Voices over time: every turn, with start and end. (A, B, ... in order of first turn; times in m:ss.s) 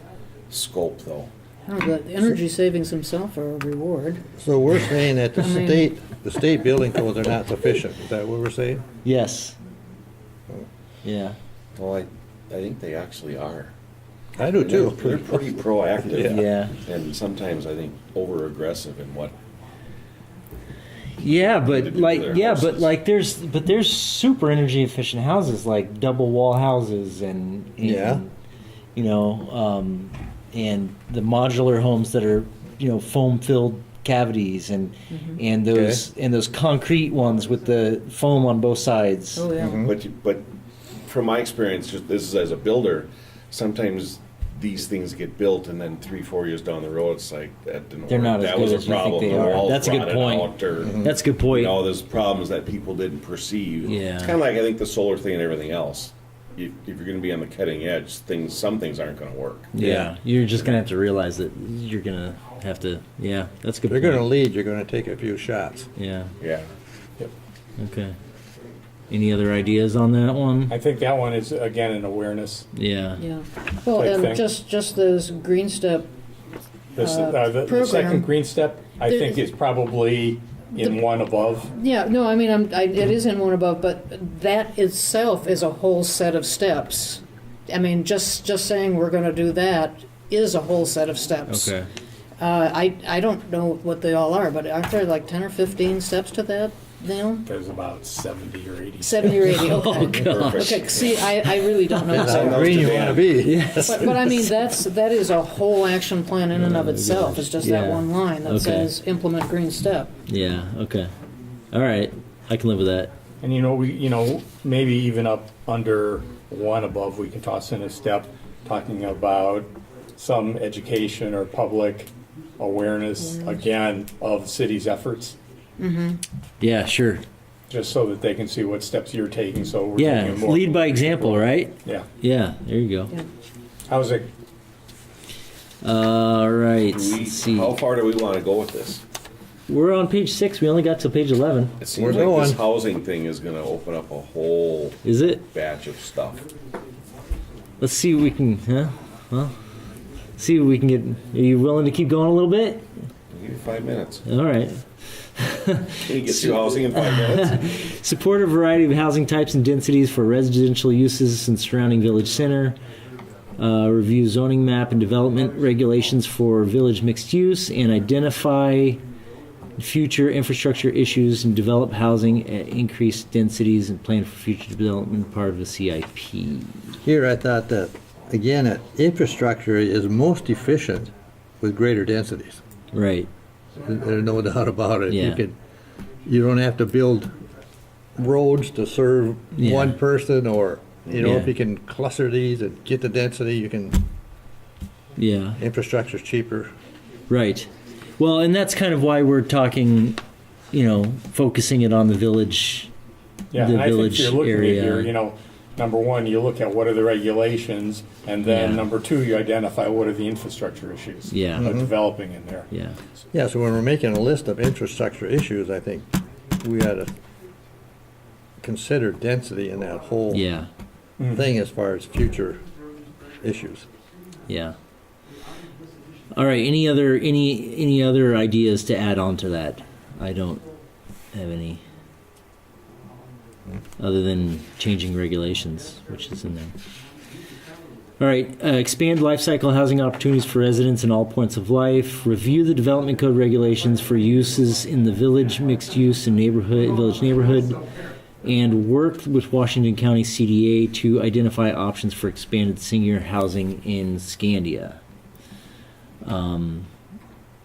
0:00.5-0:01.3 A
0:01.7-0:04.2 B
0:04.4-0:08.8 C
0:05.4-0:05.9 B
0:09.0-0:09.6 D
0:11.0-0:11.4 D
0:11.8-0:13.7 A
0:14.4-0:15.5 C
0:14.6-0:19.4 A
0:16.1-0:16.4 C
0:16.2-0:16.8 D
0:21.2-0:28.3 D
0:21.2-0:22.9 A
0:27.8-0:28.2 C
0:29.0-0:39.5 D
0:35.1-0:35.4 B
0:35.7-0:36.0 C
0:39.4-0:39.8 B
0:39.6-0:39.9 C
0:39.9-0:40.5 A
0:41.0-1:00.1 A
0:48.1-0:51.8 D
0:53.9-0:54.4 D
0:59.7-1:04.3 D
0:59.8-1:00.1 C
1:03.9-1:05.9 C
1:06.0-1:06.3 D
1:06.4-1:06.7 A
1:07.8-1:08.2 D
1:09.1-1:10.8 D
1:10.7-1:12.7 E
1:12.7-1:13.2 D
1:13.2-1:16.1 B
1:13.9-1:14.5 E
1:17.0-1:21.7 E
1:17.0-1:18.3 B
1:19.0-1:19.4 B
1:21.7-1:31.8 B
1:31.5-1:31.9 D
1:32.4-1:37.4 B
1:37.5-1:39.6 E
1:39.0-1:43.1 B
1:39.2-1:40.8 D
1:40.1-1:41.3 A
1:41.9-1:42.2 D
1:42.1-1:44.2 C
1:42.1-1:43.4 A
1:43.4-1:44.5 D
1:43.8-1:50.1 B
1:46.6-1:48.9 D
1:50.3-1:51.1 D
1:51.7-1:53.1 D
1:53.4-2:05.4 E
2:05.8-2:06.2 B
2:06.6-2:07.2 D
2:07.7-2:12.1 E
2:10.0-2:13.1 D
2:13.9-2:14.3 E
2:15.8-2:17.8 D
2:16.9-2:19.0 A
2:19.7-2:21.8 D
2:21.8-2:26.5 A
2:22.0-2:22.6 C
2:25.0-2:25.5 D
2:27.8-2:29.6 D
2:30.4-2:32.9 D
2:33.3-2:34.3 A
2:34.2-2:42.8 D
2:36.0-2:37.7 A
2:43.6-2:49.0 D
2:49.8-2:57.0 D
2:57.0-3:02.6 C
3:02.9-3:03.3 D
3:03.8-3:05.6 C
3:05.1-3:05.4 D
3:06.3-3:07.3 C
3:08.2-3:14.0 C
3:09.6-3:10.0 D
3:11.2-3:11.5 D
3:15.2-3:15.6 D
3:15.6-3:16.7 C
3:17.3-3:20.2 D
3:20.7-3:22.9 D
3:23.5-3:32.7 E
3:23.6-3:25.1 D
3:28.4-3:28.9 D
3:31.3-3:31.7 D
3:31.6-3:31.9 C
3:32.7-3:33.0 D
3:33.3-3:37.1 C
3:38.6-3:40.4 C
3:40.3-3:40.7 D
3:41.2-3:41.5 E
3:41.3-3:42.6 C
3:43.4-3:43.9 C
3:44.5-3:44.8 D
3:46.3-3:50.6 D
3:51.3-3:51.8 D
3:54.0-3:56.7 D
3:58.2-4:07.8 D
4:08.4-4:15.0 D
4:16.2-4:16.9 D